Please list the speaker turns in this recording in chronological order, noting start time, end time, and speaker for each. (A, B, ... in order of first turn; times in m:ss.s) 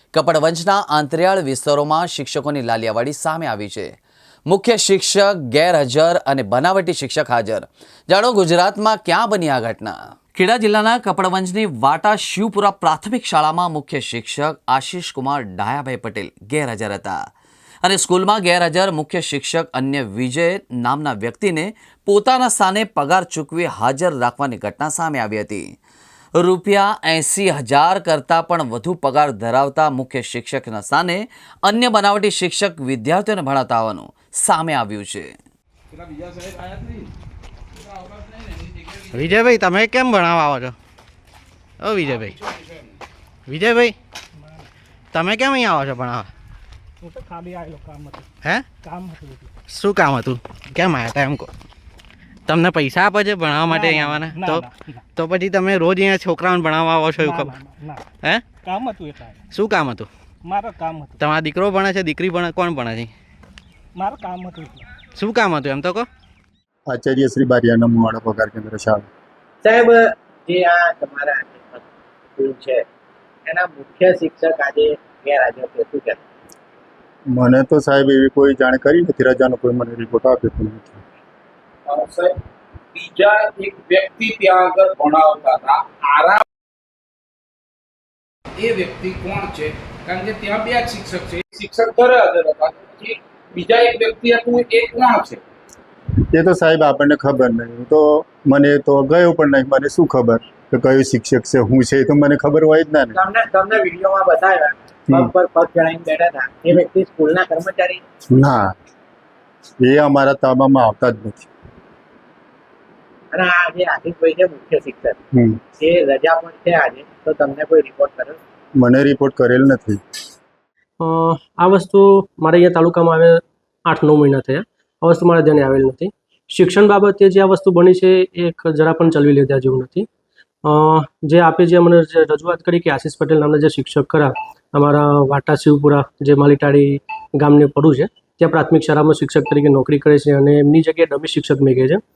0:00.1-0:03.9 A
0:04.5-0:17.2 A
0:17.8-0:25.7 A
0:26.4-0:35.3 A
0:35.9-0:37.1 B
0:37.8-0:39.6 B
0:39.1-0:40.8 C
0:41.8-0:42.4 C
0:42.1-0:42.9 B
0:43.5-0:43.9 C
0:45.1-0:46.3 C
0:47.0-0:48.3 D
0:48.8-0:49.5 D
0:49.7-0:51.5 C
0:52.5-0:57.6 C
0:53.7-0:55.0 D
0:57.2-0:58.0 D
0:58.2-0:58.5 C
0:58.6-0:59.4 D
0:59.5-1:00.1 C
1:00.4-1:01.2 D
1:01.2-1:03.1 C
1:04.0-1:04.8 D
1:05.1-1:06.1 C
1:06.9-1:09.0 E
1:09.6-1:11.8 F
1:12.4-1:12.8 F
1:13.4-1:16.2 F
1:17.3-1:21.0 E
1:21.9-1:22.4 B
1:22.9-1:26.4 B
1:28.6-1:35.4 B
1:36.3-1:43.2 E
1:43.1-1:48.0 F
1:48.3-1:48.7 E
1:49.8-1:51.5 E
1:53.3-1:55.2 F
1:55.8-1:58.4 F
1:58.8-2:00.0 E
2:01.0-2:10.1 G
2:10.6-2:22.0 G